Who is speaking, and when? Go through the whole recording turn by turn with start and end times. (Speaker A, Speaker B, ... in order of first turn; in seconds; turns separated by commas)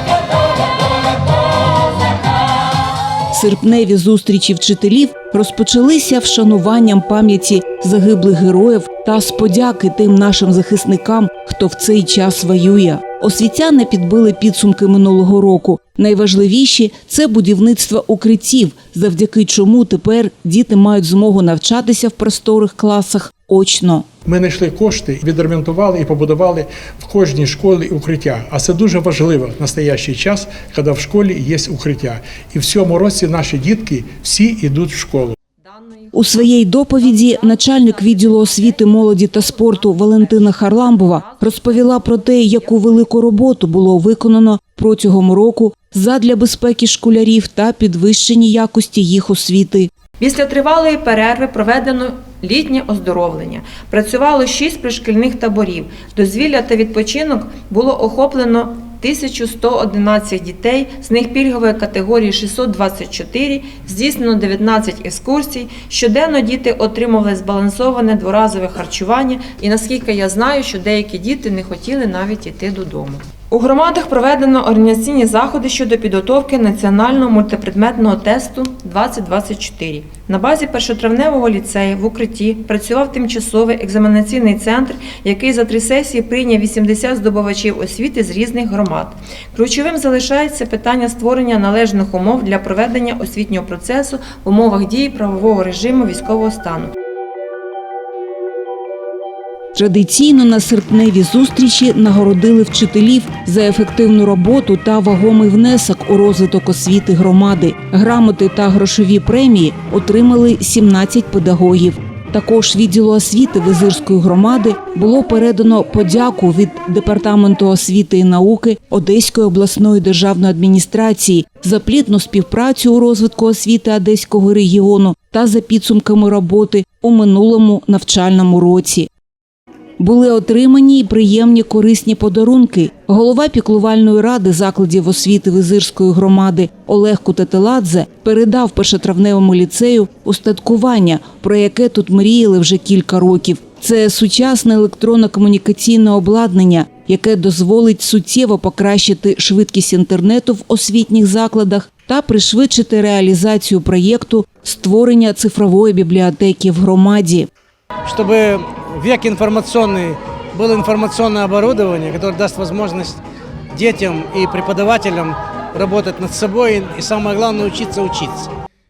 Speaker A: 3.3-24.1, Speaker B: 24.2-35.4, Speaker C: 35.6-43.1, Speaker A: 36.1-49.9, Speaker C: 50.2-96.9, Speaker A: 99.7-129.1, Speaker A: 130.0-157.5, Speaker D: 158.0-163.2, Speaker D: 163.7-168.5